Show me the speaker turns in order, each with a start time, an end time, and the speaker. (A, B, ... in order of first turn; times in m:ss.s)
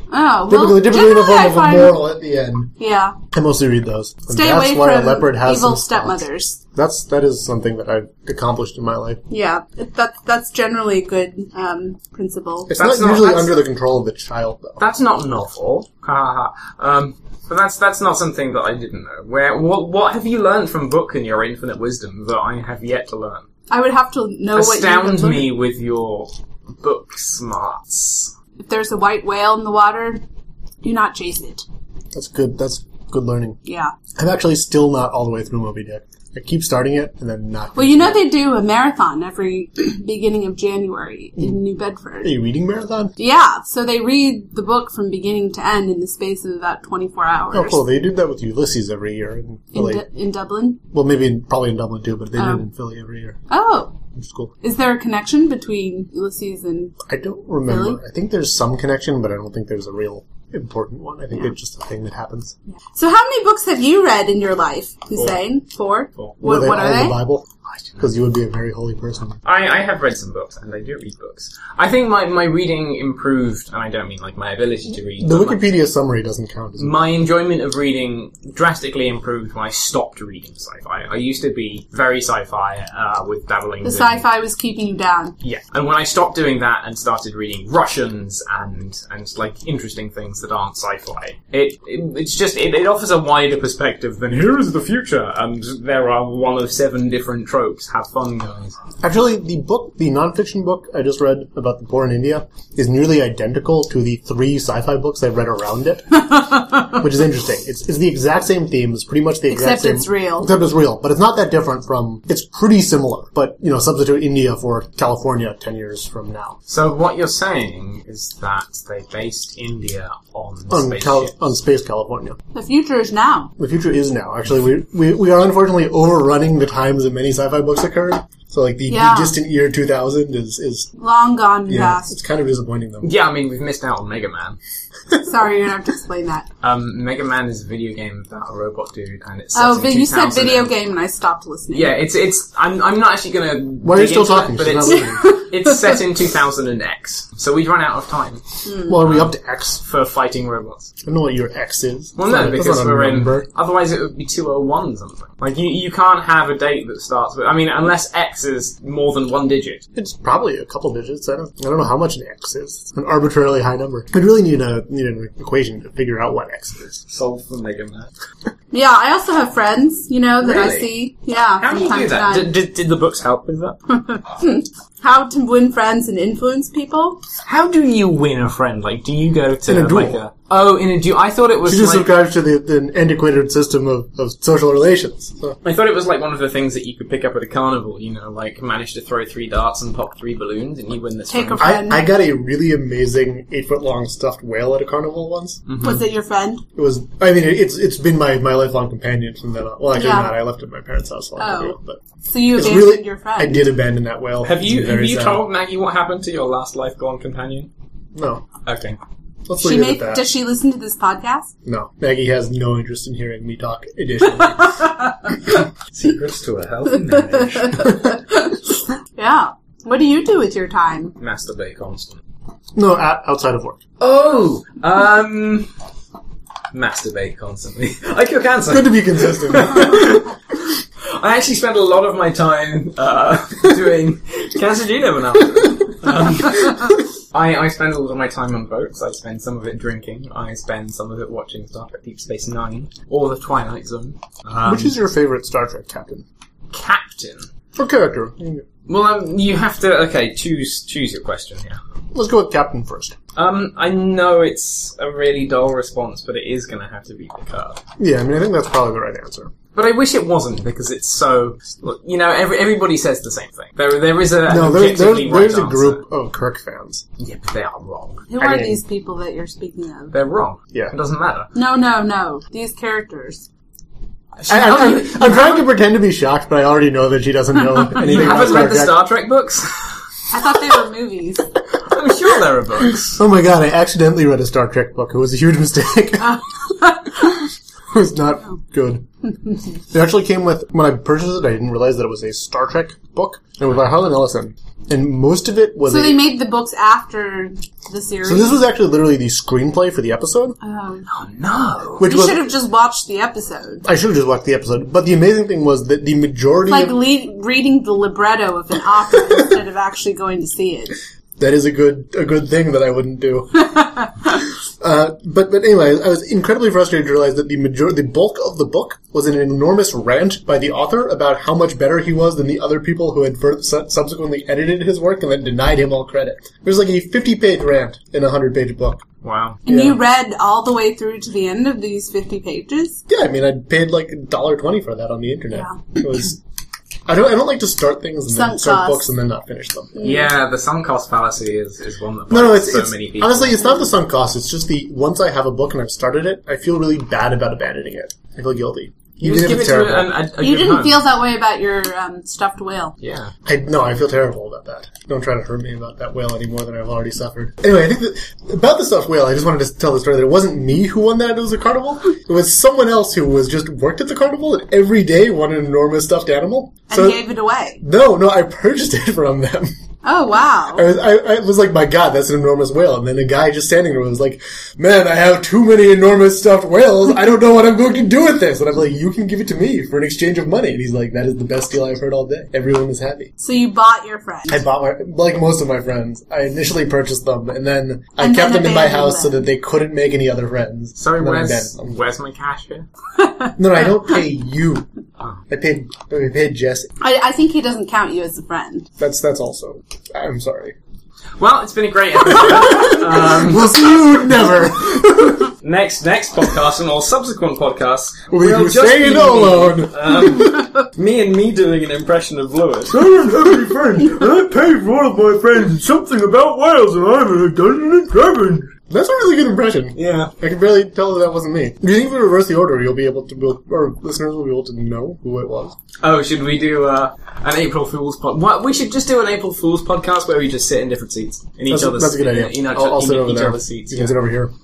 0:00.1-0:02.0 A
0:00.5-0:02.7 B
0:02.8-0:03.2 A
0:03.3-0:06.2 B
0:04.3-0:06.6 A
0:06.7-0:09.2 B
0:09.3-0:12.7 A
0:12.7-0:14.8 B
0:12.7-0:13.6 C
0:14.8-0:23.4 C
0:23.7-0:25.5 A
0:24.6-0:28.3 C
0:28.6-0:30.2 A
0:30.8-0:31.6 A
0:32.1-0:33.6 B
0:33.6-0:33.9 A
0:34.2-0:38.3 B
0:37.8-0:42.4 A
0:42.2-0:43.1 B
0:43.2-0:47.8 A
0:47.5-0:50.0 B
0:49.7-0:50.8 A
0:50.9-0:53.4 B
0:52.4-0:52.6 A
0:53.5-0:54.0 A
0:54.2-0:54.5 B
0:54.6-0:57.0 A
0:57.1-1:02.6 B
0:57.7-0:58.0 A
1:03.0-1:07.2 A
1:06.4-1:07.5 B
1:07.7-1:08.0 C
1:08.0-1:09.4 B
1:09.4-1:15.7 C
1:15.2-1:17.0 B
1:16.8-1:24.2 C
1:23.8-1:25.4 A
1:25.4-1:38.8 C
1:39.0-1:56.6 B
1:46.4-1:46.8 A
1:49.5-1:50.5 A
1:56.7-2:01.3 C
2:00.7-2:02.4 B
2:02.5-2:03.5 A
2:03.6-2:10.9 B
2:08.9-2:09.4 A
2:11.0-2:12.1 A
2:11.7-2:13.1 B
2:13.0-2:14.6 C
2:15.2-2:16.5 A
2:16.6-2:20.7 C
2:19.5-2:22.0 A
2:21.7-2:30.9 C
2:23.8-2:25.3 B
2:25.0-2:26.0 A
2:28.6-2:29.0 A
2:28.9-2:29.8 B
2:31.0-2:33.5 B
2:32.2-2:39.8 C
2:40.0-2:47.0 B
2:47.1-2:48.1 C
2:48.7-2:52.5 A
2:50.4-2:50.9 C
2:51.6-2:53.8 C
2:53.9-2:57.2 A
2:57.4-3:02.1 C
2:59.7-3:00.2 B
3:01.7-3:05.6 B
3:05.6-3:11.8 C
3:11.3-3:12.1 A
3:11.6-3:15.6 B
3:15.7-3:16.0 C
3:15.8-3:16.6 A
3:16.8-3:25.4 B
3:19.9-3:20.4 A
3:21.4-3:21.8 A
3:22.3-3:23.7 A
3:24.4-3:27.7 C
3:28.2-3:28.4 B
3:28.6-3:29.0 C
3:29.5-3:30.3 B
3:29.6-3:31.5 A
3:31.7-3:34.9 B
3:35.9-3:38.0 C
3:37.4-3:41.2 A
3:41.2-3:42.2 C
3:42.8-3:43.8 B
3:44.0-3:45.7 C
3:46.7-3:50.3 C
3:48.7-3:50.2 B
3:51.1-4:05.0 C
4:04.6-4:06.2 B
4:06.7-4:07.5 C
4:07.8-4:08.6 B
4:08.9-4:11.8 C
4:12.1-4:13.2 B
4:13.4-4:17.8 C
4:18.0-4:19.5 B
4:19.7-4:26.0 C
4:24.5-4:27.0 B
4:27.2-4:28.3 C
4:28.3-4:30.1 A
4:28.4-4:28.8 B
4:30.1-4:31.5 C
4:31.6-4:33.5 A
4:34.4-4:35.6 C
4:34.5-4:39.0 B
4:37.8-4:38.5 A
4:38.0-4:39.9 C
4:40.3-4:41.5 A
4:41.8-4:43.2 C
4:43.2-4:46.4 B
4:46.3-4:47.3 A
4:47.9-4:49.1 B
4:49.9-4:56.2 B
4:55.9-4:58.6 A
4:58.2-5:00.6 B
5:00.6-5:01.0 A
5:01.0-5:02.1 C
5:02.0-5:03.8 A
5:02.0-5:02.5 B
5:03.8-5:07.0 B
5:06.7-5:11.0 A
5:11.4-5:13.7 B
5:13.6-5:14.1 A
5:14.8-5:29.0 B
5:29.2-5:29.6 C
5:29.7-5:33.0 A
5:29.7-5:30.0 B
5:33.1-5:36.4 B
5:37.1-5:40.0 B
5:38.3-5:39.0 A
5:40.0-5:40.2 A
5:40.0-5:43.6 C
5:42.3-5:50.2 B
5:49.2-5:51.0 C
5:50.4-5:53.0 A
5:53.0-5:53.3 C
5:53.5-6:07.2 B
6:06.9-6:07.8 A
6:07.8-6:09.7 B
6:10.0-6:10.9 A
6:10.7-6:23.3 B
6:23.4-6:24.6 A
6:24.5-6:32.0 B
6:28.2-6:29.4 A
6:31.0-6:32.9 C
6:33.2-6:33.5 A
6:33.6-6:34.9 B
6:35.5-6:36.9 B
6:37.0-6:38.9 A
6:39.0-6:40.8 B
6:41.4-6:44.2 C
6:42.3-6:45.5 B
6:45.6-6:53.1 C
6:48.3-6:50.7 B
6:53.0-7:05.8 B
7:00.0-7:00.3 C
7:06.0-7:14.2 C
7:11.7-7:14.5 B